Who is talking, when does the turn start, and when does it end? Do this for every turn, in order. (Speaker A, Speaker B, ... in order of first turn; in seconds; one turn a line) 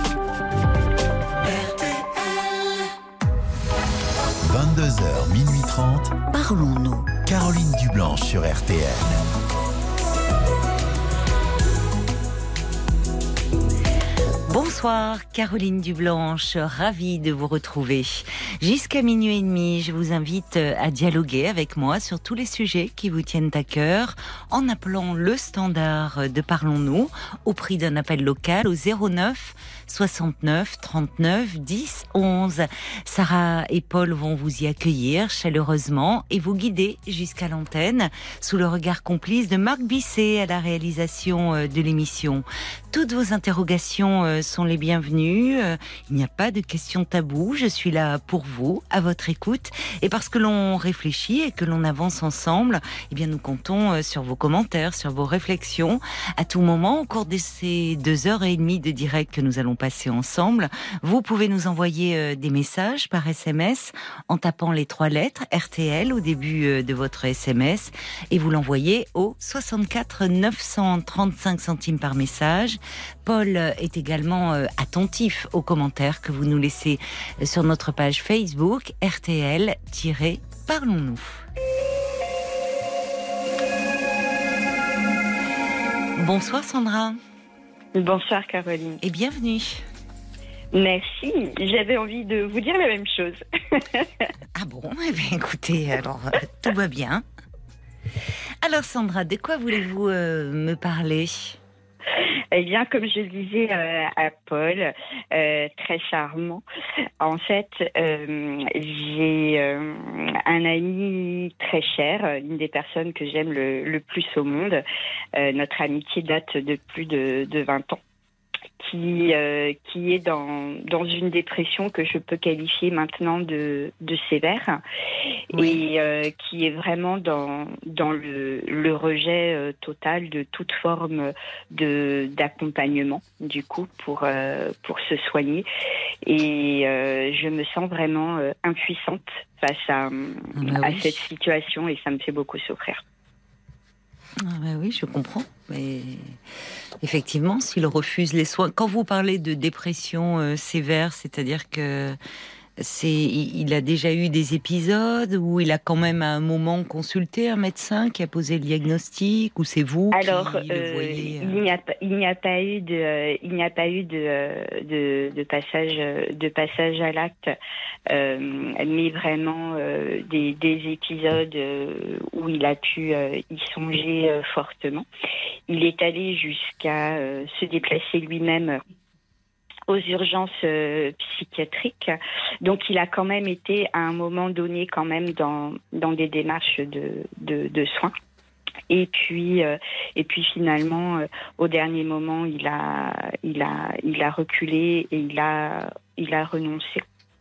Speaker A: 1.5-2.4
Speaker B: 4.4-6.2
Speaker A: 6.3-7.1
Speaker B: 7.2-9.2
Speaker A: 14.4-81.5
Speaker A: 86.2-87.2
Speaker C: 88.0-89.0
Speaker A: 89.0-89.8
Speaker C: 90.7-94.3
Speaker A: 94.5-97.2
Speaker A: 98.6-101.6
Speaker C: 102.5-106.6
Speaker C: 107.2-114.8
Speaker C: 115.3-118.0
Speaker C: 118.8-124.8
Speaker C: 125.5-135.7
Speaker A: 125.5-125.8
Speaker C: 136.2-143.0
Speaker A: 140.5-141.2
Speaker A: 144.4-146.4
Speaker A: 147.0-152.2
Speaker A: 152.8-161.6
Speaker C: 160.1-167.5
Speaker C: 168.1-175.1
Speaker C: 175.7-178.8
Speaker C: 179.9-188.1
Speaker C: 188.9-197.0